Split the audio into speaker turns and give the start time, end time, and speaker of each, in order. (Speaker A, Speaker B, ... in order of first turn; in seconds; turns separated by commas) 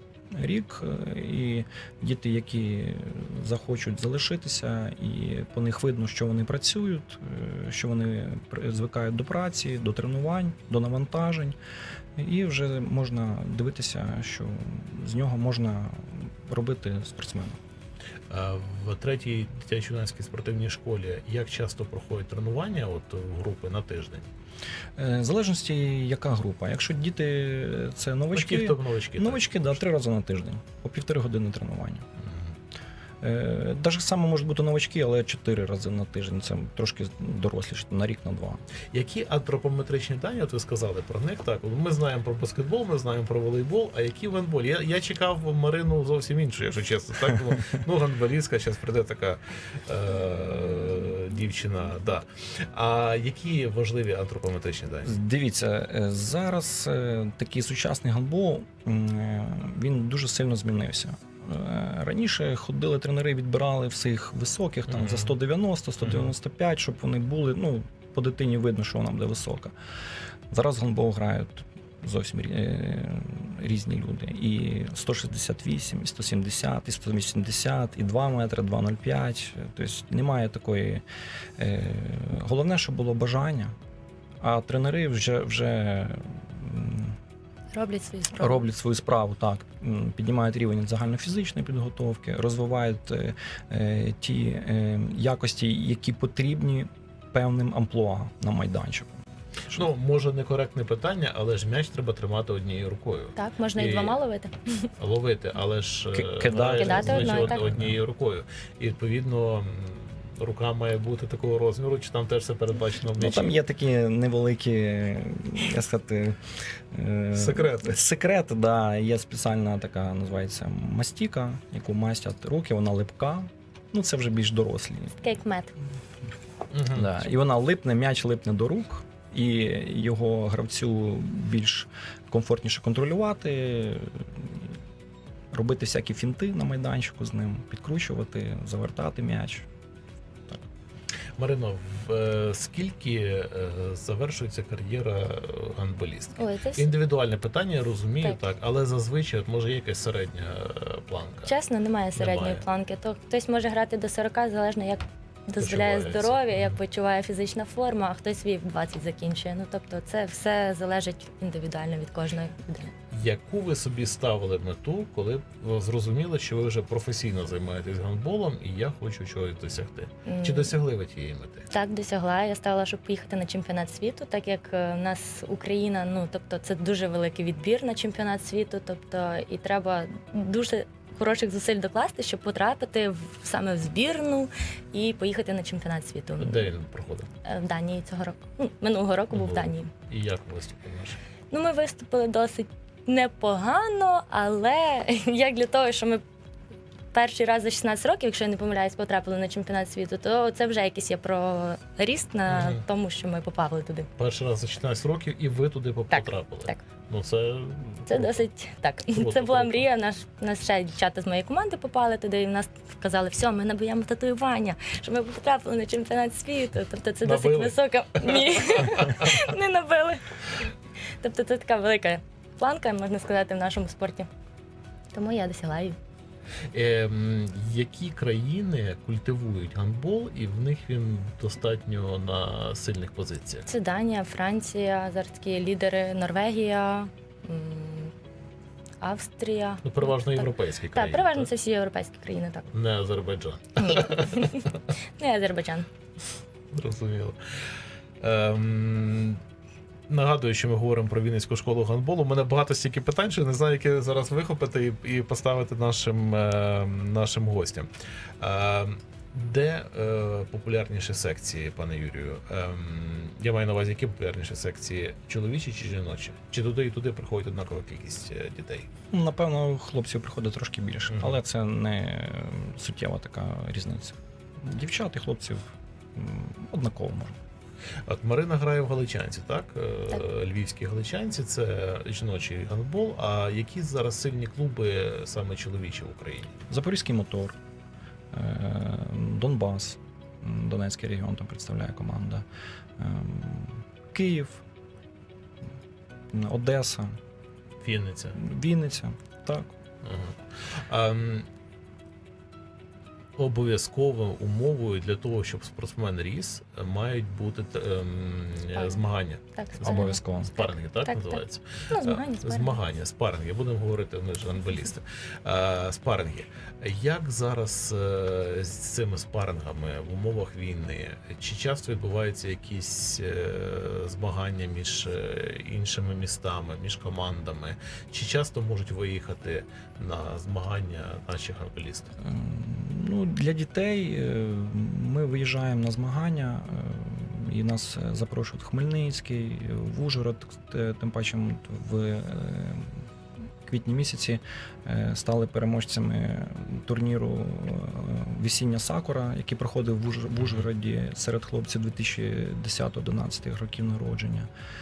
Speaker A: 0.3-11.6, Speaker A: 12.2-17.6, Speaker B: 18.3-24.3, Speaker A: 25.0-32.0, Speaker B: 28.3-29.8, Speaker A: 33.2-38.6, Speaker B: 38.9-55.1, Speaker A: 55.0-69.7, Speaker B: 64.9-65.3, Speaker B: 66.0-66.3, Speaker A: 70.5-81.0, Speaker A: 81.6-83.7, Speaker A: 84.4-87.2, Speaker C: 87.7-88.6, Speaker A: 88.3-99.9, Speaker B: 99.7-104.2, Speaker C: 103.3-104.9, Speaker B: 105.0-113.6, Speaker A: 106.1-108.0, Speaker C: 106.7-107.7, Speaker A: 113.2-116.4, Speaker A: 116.9-125.2, Speaker B: 117.3-118.0, Speaker C: 125.2-125.7, Speaker B: 126.7-127.2, Speaker A: 126.9-134.7, Speaker A: 135.5-139.7, Speaker B: 141.4-151.5, Speaker C: 146.4-146.9, Speaker C: 151.4-162.9, Speaker B: 152.1-152.6, Speaker B: 155.6-156.8, Speaker B: 163.1-171.7, Speaker C: 170.2-170.7, Speaker C: 171.7-186.7, Speaker B: 186.4-187.3, Speaker C: 187.4-189.9, Speaker B: 189.3-191.2, Speaker C: 191.5-196.2, Speaker C: 197.1-204.1, Speaker B: 202.5-202.8, Speaker B: 204.2-208.4, Speaker C: 206.1-206.8, Speaker C: 208.1-220.7, Speaker B: 209.1-209.9, Speaker B: 217.2-219.5, Speaker C: 221.2-224.3, Speaker C: 225.1-226.0, Speaker B: 226.7-233.7, Speaker C: 233.7-238.1, Speaker C: 239.0-242.7, Speaker B: 239.8-241.5, Speaker B: 242.7-244.6, Speaker C: 243.8-245.9, Speaker B: 246.7-247.4, Speaker B: 248.2-249.4, Speaker B: 250.1-257.9, Speaker B: 258.4-268.9, Speaker A: 269.1-277.4, Speaker B: 271.1-271.4, Speaker B: 278.1-286.5, Speaker A: 286.7-287.6, Speaker A: 288.3-292.4, Speaker A: 293.0-294.6, Speaker A: 296.3-297.2, Speaker B: 297.8-298.4, Speaker A: 298.4-299.7, Speaker B: 300.0-301.5, Speaker B: 303.4-332.1, Speaker C: 309.6-312.8, Speaker A: 309.8-310.5, Speaker A: 332.2-342.9, Speaker A: 343.6-354.5, Speaker B: 350.4-350.7